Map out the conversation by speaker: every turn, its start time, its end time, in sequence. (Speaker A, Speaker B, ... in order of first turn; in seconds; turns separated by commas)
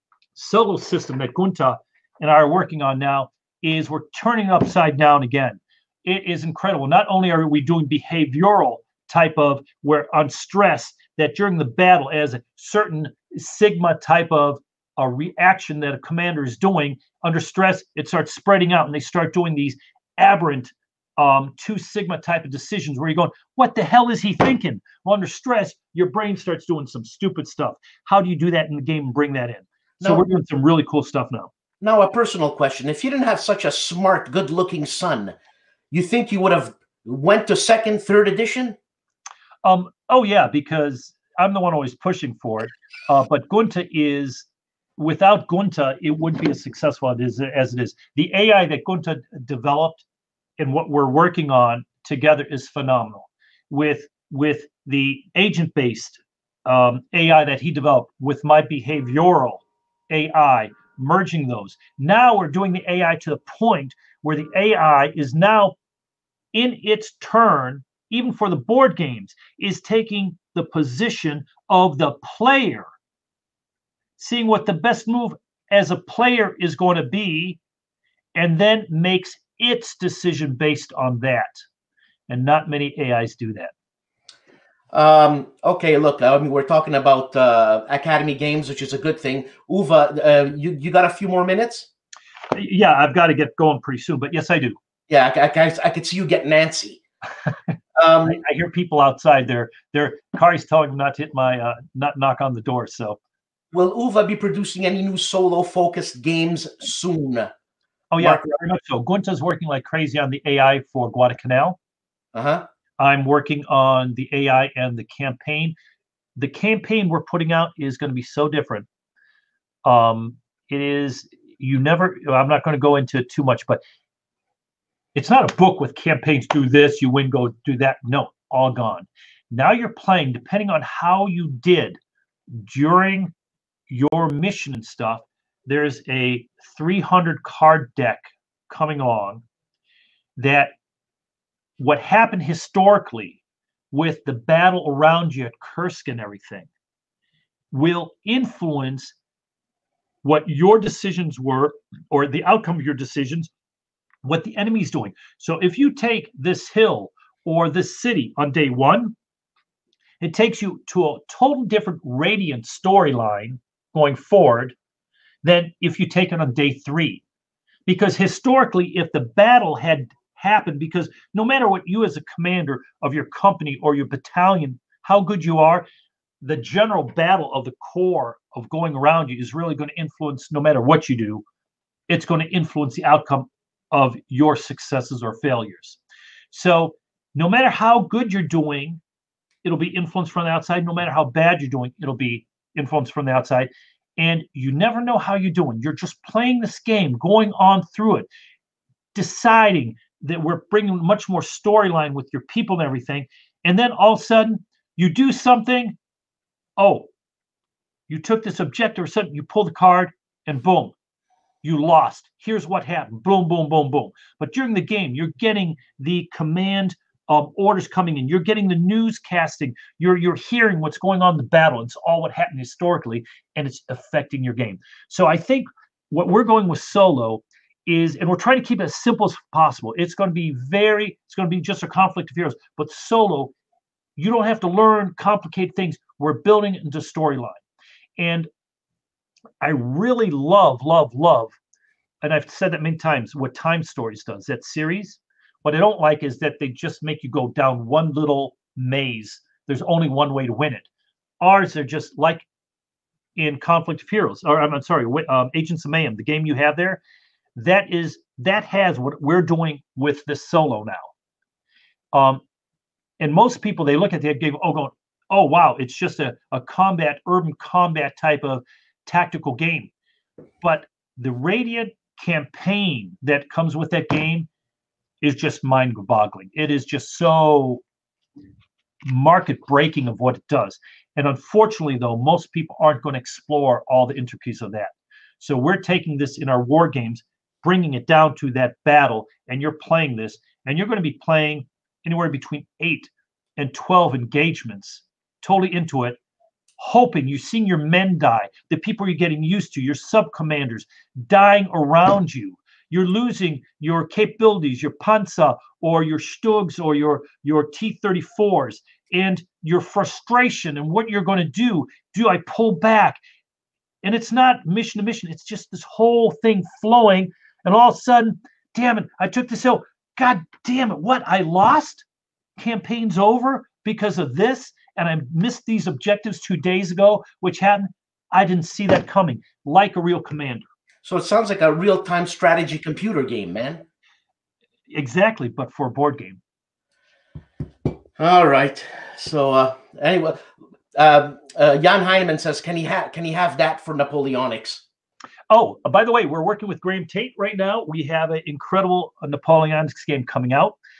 Speaker A: 0.3-31.5, Speaker B: 30.0-30.4, Speaker B: 31.8-35.3, Speaker B: 35.9-38.8, Speaker A: 39.6-44.5, Speaker A: 45.0-50.0, Speaker A: 50.6-65.7, Speaker A: 66.5-72.8, Speaker A: 74.2-77.6, Speaker A: 78.3-81.6, Speaker A: 82.3-83.7, Speaker B: 84.9-91.9, Speaker A: 92.5-94.8, Speaker B: 95.1-97.0, Speaker B: 98.0-98.4, Speaker A: 98.2-103.2, Speaker B: 103.7-107.5, Speaker A: 108.1-111.8, Speaker B: 108.2-108.6, Speaker B: 112.3-112.6, Speaker A: 113.0-115.7, Speaker A: 116.3-118.9, Speaker A: 119.8-123.8, Speaker A: 125.1-132.0, Speaker A: 132.5-133.3, Speaker A: 133.9-139.4, Speaker A: 140.4-140.7, Speaker A: 141.8-143.4, Speaker A: 143.9-146.7, Speaker A: 147.7-149.1, Speaker A: 150.2-153.5, Speaker A: 154.2-159.2, Speaker A: 160.2-164.7, Speaker A: 165.4-167.2, Speaker A: 167.8-175.8, Speaker A: 176.4-181.4, Speaker A: 182.1-186.0, Speaker A: 186.5-189.0, Speaker A: 189.6-198.3, Speaker A: 199.1-205.9, Speaker A: 206.8-207.1, Speaker A: 208.1-210.9, Speaker A: 211.6-233.5, Speaker A: 234.2-237.6, Speaker A: 238.2-238.5, Speaker A: 239.6-241.6, Speaker A: 242.2-250.9, Speaker A: 251.4-252.4, Speaker A: 253.3-257.0, Speaker A: 257.6-261.1, Speaker A: 262.1-262.4, Speaker A: 263.2-269.9, Speaker A: 270.6-274.5, Speaker A: 275.2-277.8, Speaker A: 279.1-296.2, Speaker A: 296.8-313.2, Speaker A: 314.0-322.0, Speaker A: 322.6-330.7, Speaker B: 331.0-333.8, Speaker A: 334.9-336.4, Speaker B: 338.2-340.4, Speaker B: 340.9-344.8, Speaker A: 345.5-350.8